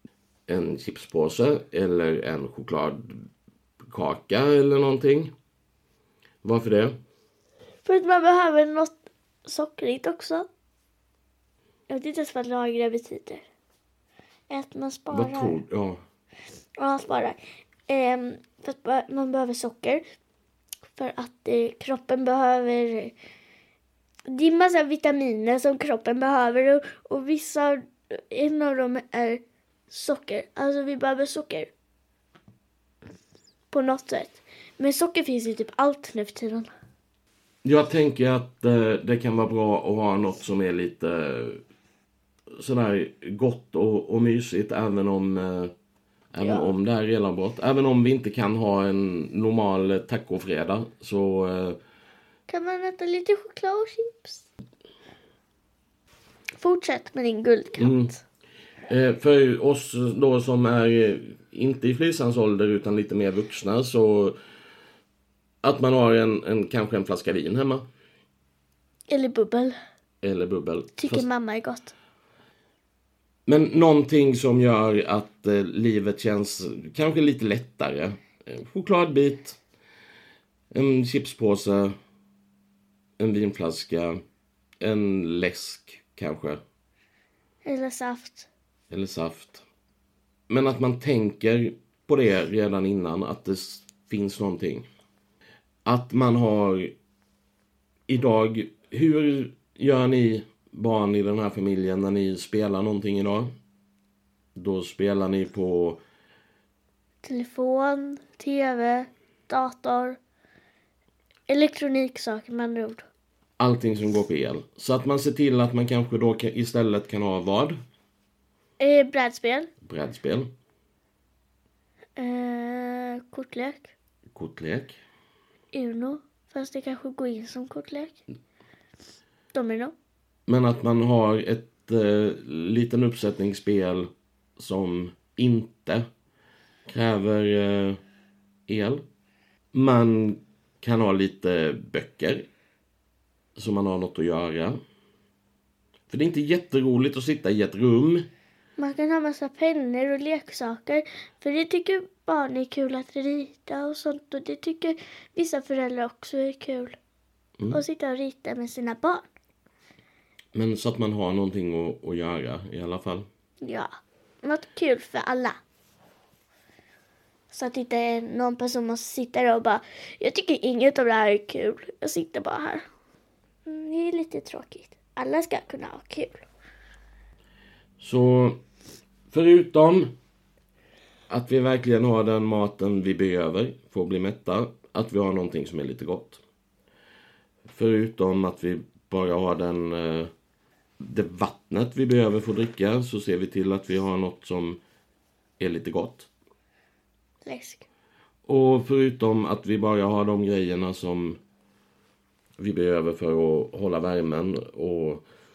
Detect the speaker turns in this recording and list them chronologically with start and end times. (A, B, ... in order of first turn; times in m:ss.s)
0:00.5-0:03.2 A
0:03.8-0:05.3 A
0:06.4-0:07.0 A
0:07.8-0:08.9 B
0:09.4-0:10.4 B
0:11.9-0:13.4 B
0:14.5-0:15.6 B
0:15.1-0:16.0 A
0:16.8-0:20.0 B
0:20.9-0:23.1 B
0:24.3-0:31.7 B
0:33.7-0:36.7 B
0:37.6-0:41.6 A
0:42.6-0:45.7 A
0:46.3-0:51.8 A
0:46.4-0:46.7 B
0:52.5-0:54.4 B
0:56.6-0:58.2 B
0:57.8-0:58.1 A
0:58.9-1:04.4 A
1:05.6-1:07.8 A
1:09.1-1:09.8 B
1:10.2-1:11.2 A
1:11.0-1:11.9 B
1:13.4-1:19.6 A
1:20.7-1:21.9 A
1:23.2-1:24.2 A
1:24.8-1:26.6 A
1:27.6-1:28.5 B
1:28.9-1:29.6 A
1:30.5-1:34.9 A
1:35.8-1:36.9 A
1:38.1-1:43.5 A
1:44.5-1:46.0 A
1:47.2-1:50.2 B
1:51.5-1:53.0 B
1:53.6-1:57.8 A
1:58.8-1:59.7 B
1:59.8-2:00.5 A
2:02.2-2:03.9 B
2:04.3-2:05.0 A
2:05.7-2:08.2 B
2:09.5-2:09.9 B
2:10.5-2:16.0 A
2:16.9-2:18.0 A
2:18.7-2:19.0 A
2:19.7-2:22.5 A
2:23.6-2:24.8 A
2:26.1-2:28.3 A
2:28.8-2:37.0 B
2:37.7-2:39.2 B
2:40.5-2:43.3 A
2:43.6-2:43.9 B
2:44.4-2:45.6 B
2:47.5-2:52.8 B
2:53.6-2:56.4 B
2:58.0-2:58.6 A
2:59.3-3:00.1 A
3:01.3-3:06.4 A
3:07.7-3:10.3 A
3:11.0-3:14.8 A
3:15.6-3:16.3 A
3:17.4-3:17.8 B
3:18.4-3:21.4 A
3:22.6-3:25.2 A